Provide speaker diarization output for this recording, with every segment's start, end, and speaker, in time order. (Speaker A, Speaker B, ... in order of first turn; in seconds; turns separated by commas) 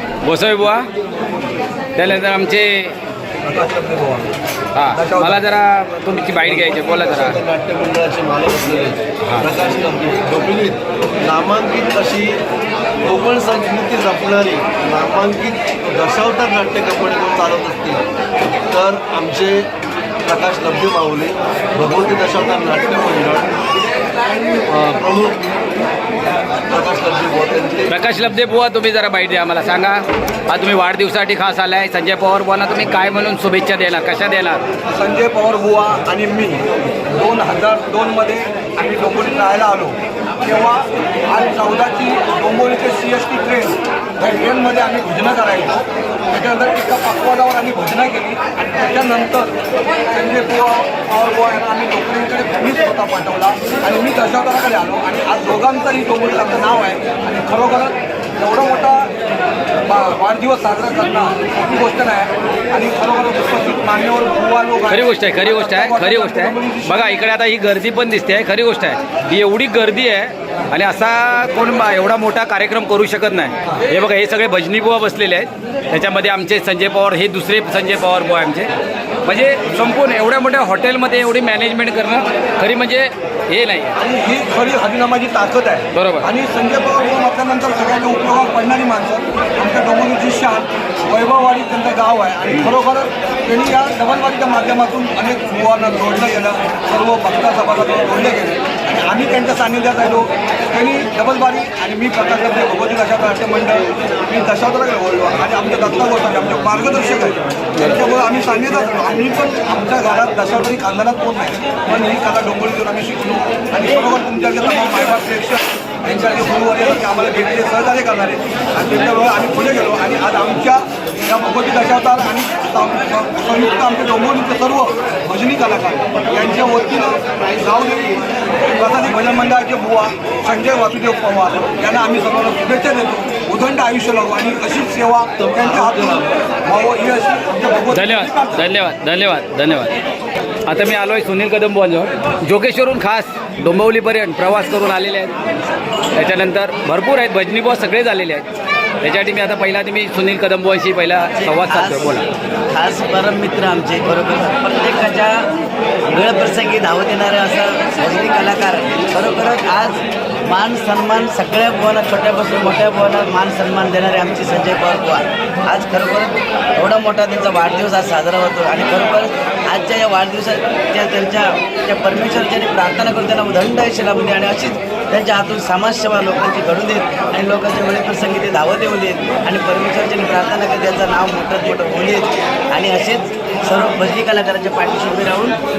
Speaker A: 0.2-0.9, Speaker A: 1.9-2.9, Speaker B: 3.4-4.3, Speaker A: 4.7-7.4, Speaker B: 4.9-5.4, Speaker C: 6.4-12.4, Speaker A: 9.2-9.5, Speaker C: 13.0-18.0, Speaker C: 18.7-19.7, Speaker C: 20.2-23.6, Speaker C: 24.4-25.5, Speaker C: 26.7-28.0, Speaker A: 27.9-34.6, Speaker B: 34.9-49.5, Speaker B: 50.1-59.1, Speaker B: 59.8-67.2, Speaker A: 64.9-78.7, Speaker A: 79.2-83.9, Speaker B: 84.0-138.6, Speaker A: 85.9-86.3, Speaker C: 135.4-136.4, Speaker A: 137.9-139.9, Speaker A: 140.7-145.3, Speaker A: 146.1-148.4, Speaker A: 149.0-152.2, Speaker D: 151.3-152.2, Speaker D: 152.7-155.4, Speaker D: 156.1-185.6